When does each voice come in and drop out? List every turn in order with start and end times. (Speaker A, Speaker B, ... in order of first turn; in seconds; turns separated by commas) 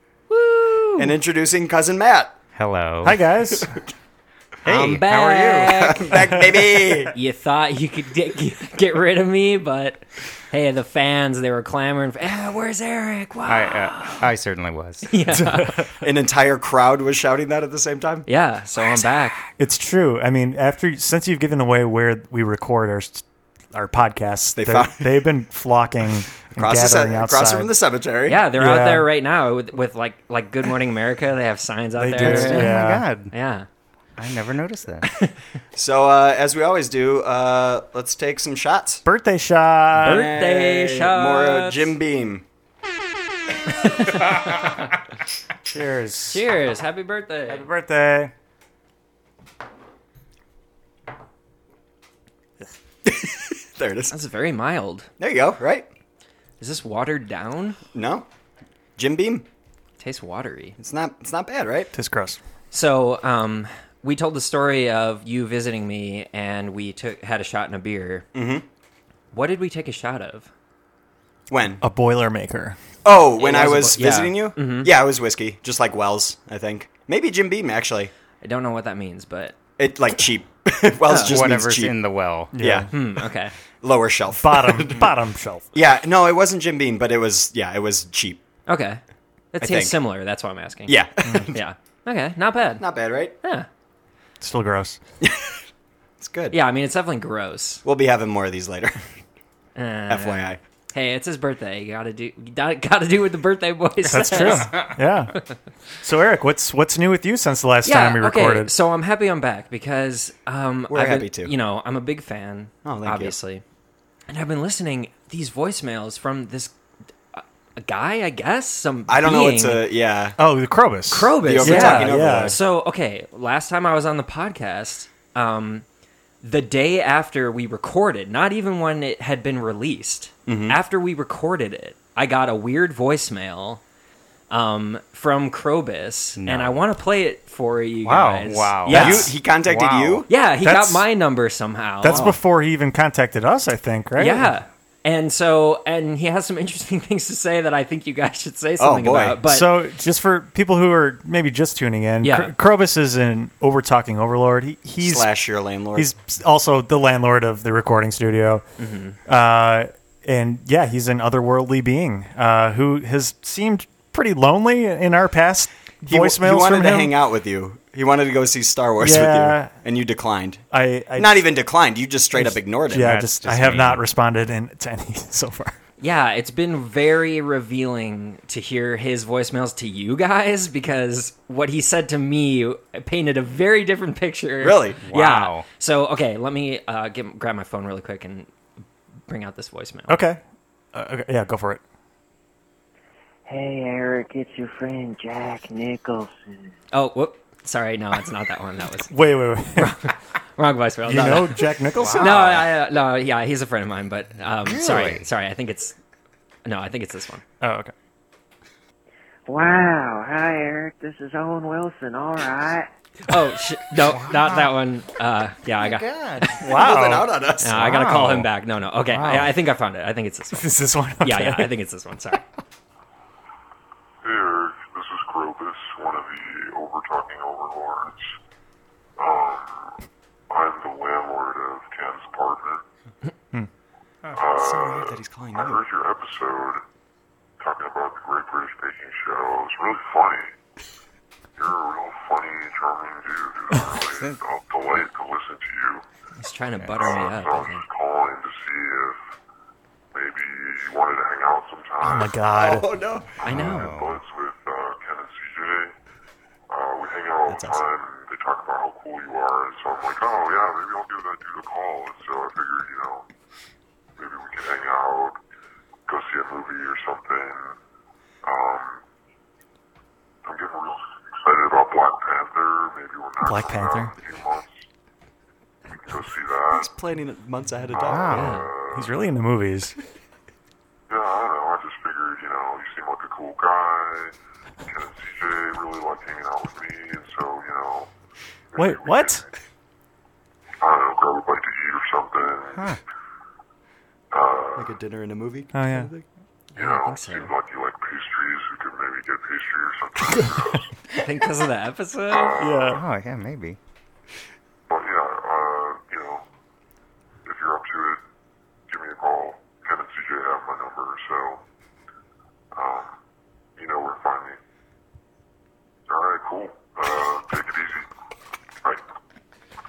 Speaker A: 0.3-1.1, Speaker B: 1.0-2.4, Speaker C: 2.5-3.2, Speaker D: 3.0-3.8, Speaker C: 4.7-6.0, Speaker A: 4.7-6.5, Speaker B: 6.0-7.1, Speaker A: 7.0-14.2, Speaker C: 13.5-15.1, Speaker A: 15.1-15.8, Speaker D: 15.4-15.9, Speaker B: 16.0-18.3, Speaker A: 18.3-19.4, Speaker D: 19.6-27.7, Speaker B: 24.6-25.3, Speaker B: 26.4-28.4, Speaker A: 28.3-32.8, Speaker D: 28.6-29.1, Speaker D: 32.0-33.1, Speaker C: 32.2-33.3, Speaker A: 33.3-33.7, Speaker C: 34.2-35.1, Speaker A: 35.0-35.3, Speaker B: 35.8-39.0, Speaker D: 39.1-40.3, Speaker B: 40.0-42.5, Speaker A: 40.0-41.9, Speaker A: 43.7-44.9, Speaker D: 45.7-46.5, Speaker A: 46.3-47.7, Speaker D: 47.5-48.3, Speaker B: 53.0-54.2, Speaker A: 54.1-55.1, Speaker B: 55.2-55.9, Speaker A: 56.6-57.8, Speaker B: 57.9-58.3, Speaker B: 59.0-59.5, Speaker A: 60.0-60.8, Speaker B: 60.8-61.9, Speaker D: 61.9-62.4, Speaker A: 62.7-68.3, Speaker B: 68.3-68.7, Speaker A: 69.3-70.5, Speaker B: 71.5-71.8, Speaker D: 71.8-72.8, Speaker B: 73.0-78.1, Speaker A: 73.4-74.9, Speaker A: 78.4-79.6, Speaker B: 79.8-82.0, Speaker A: 81.1-81.3, Speaker C: 81.3-82.5, Speaker D: 82.5-82.9, Speaker B: 82.6-82.9, Speaker A: 82.9-83.5, Speaker B: 83.8-85.1, Speaker D: 84.4-85.7, Speaker B: 85.7-88.4, Speaker A: 88.7-89.0, Speaker A: 89.5-92.8, Speaker B: 89.6-90.0, Speaker B: 90.9-91.6, Speaker B: 92.8-93.3, Speaker A: 93.4-93.7, Speaker D: 94.4-95.0, Speaker B: 95.2-95.6, Speaker B: 96.2-96.6, Speaker A: 96.5-97.8, Speaker B: 97.8-99.0, Speaker A: 99.8-105.5, Speaker B: 100.1-100.6, Speaker D: 104.1-105.4, Speaker C: 104.4-104.9, Speaker D: 106.0-108.7, Speaker A: 107.8-113.6, Speaker B: 110.9-111.5, Speaker B: 112.8-113.4, Speaker A: 114.3-116.7, Speaker A: 117.3-119.8, Speaker B: 119.1-120.4, Speaker D: 120.4-122.6, Speaker A: 121.1-125.8, Speaker B: 121.4-122.6, Speaker A: 126.4-133.8, Speaker B: 130.5-130.8, Speaker A: 134.5-139.3, Speaker C: 136.4-136.8, Speaker C: 138.0-140.3, Speaker B: 138.9-140.3, Speaker A: 140.3-142.3, Speaker D: 140.6-141.0, Speaker D: 142.0-144.5, Speaker B: 142.1-142.4, Speaker A: 144.2-149.7, Speaker B: 148.8-149.4, Speaker D: 149.5-155.3, Speaker A: 152.2-152.5, Speaker B: 155.0-156.1, Speaker D: 155.9-158.6, Speaker A: 158.8-159.2, Speaker D: 159.3-167.1, Speaker B: 166.1-173.3, Speaker D: 169.0-169.7, Speaker D: 170.7-171.4, Speaker D: 172.3-175.7, Speaker C: 172.9-174.0, Speaker A: 176.0-188.5, Speaker B: 184.6-185.0, Speaker C: 185.1-185.7, Speaker A: 189.3-190.2, Speaker D: 190.1-190.4, Speaker D: 190.9-191.8, Speaker E: 193.5-196.7, Speaker A: 196.9-199.1, Speaker D: 199.1-200.1, Speaker A: 199.8-201.6, Speaker D: 201.0-202.6, Speaker C: 201.9-202.6, Speaker A: 202.2-206.0, Speaker C: 204.7-205.2, Speaker A: 206.7-207.4, Speaker D: 207.6-207.9, Speaker E: 209.5-212.9, Speaker A: 213.3-216.1, Speaker C: 214.0-214.7, Speaker C: 215.8-216.6, Speaker D: 216.6-217.3, Speaker B: 216.6-217.9, Speaker A: 217.6-222.4, Speaker C: 217.7-218.5, Speaker C: 219.0-219.5, Speaker D: 220.5-221.7, Speaker F: 224.2-228.2, Speaker F: 229.2-230.0, Speaker F: 230.5-232.8, Speaker F: 234.3-236.8, Speaker B: 234.5-235.8, Speaker F: 237.6-240.5, Speaker F: 241.6-246.0, Speaker C: 244.0-244.4, Speaker A: 246.4-247.8, Speaker F: 247.0-249.2, Speaker F: 250.1-252.5, Speaker D: 252.0-252.8, Speaker B: 252.5-253.4, Speaker F: 253.4-255.9, Speaker A: 253.4-253.9, Speaker C: 253.5-254.2, Speaker F: 256.7-263.3, Speaker D: 257.5-257.8, Speaker F: 264.2-265.4, Speaker F: 266.1-267.8, Speaker F: 268.4-269.0, Speaker F: 270.4-274.9, Speaker D: 273.4-274.1, Speaker F: 275.9-276.9, Speaker B: 276.7-278.4, Speaker F: 277.9-279.1, Speaker C: 278.0-278.6, Speaker A: 278.3-278.7, Speaker D: 278.9-279.9, Speaker F: 281.1-288.1, Speaker F: 288.7-289.4, Speaker D: 288.8-289.4, Speaker F: 290.8-293.0, Speaker C: 292.8-293.0, Speaker F: 294.3-294.9, Speaker B: 294.8-296.2, Speaker D: 295.7-296.1, Speaker A: 296.8-297.5, Speaker F: 296.8-300.9, Speaker A: 301.1-302.7, Speaker F: 302.5-302.8, Speaker D: 302.6-303.0, Speaker C: 302.9-303.8, Speaker F: 304.9-306.4, Speaker F: 307.4-308.2, Speaker F: 308.9-311.6, Speaker F: 312.7-313.1, Speaker F: 313.8-314.6, Speaker F: 316.1-318.1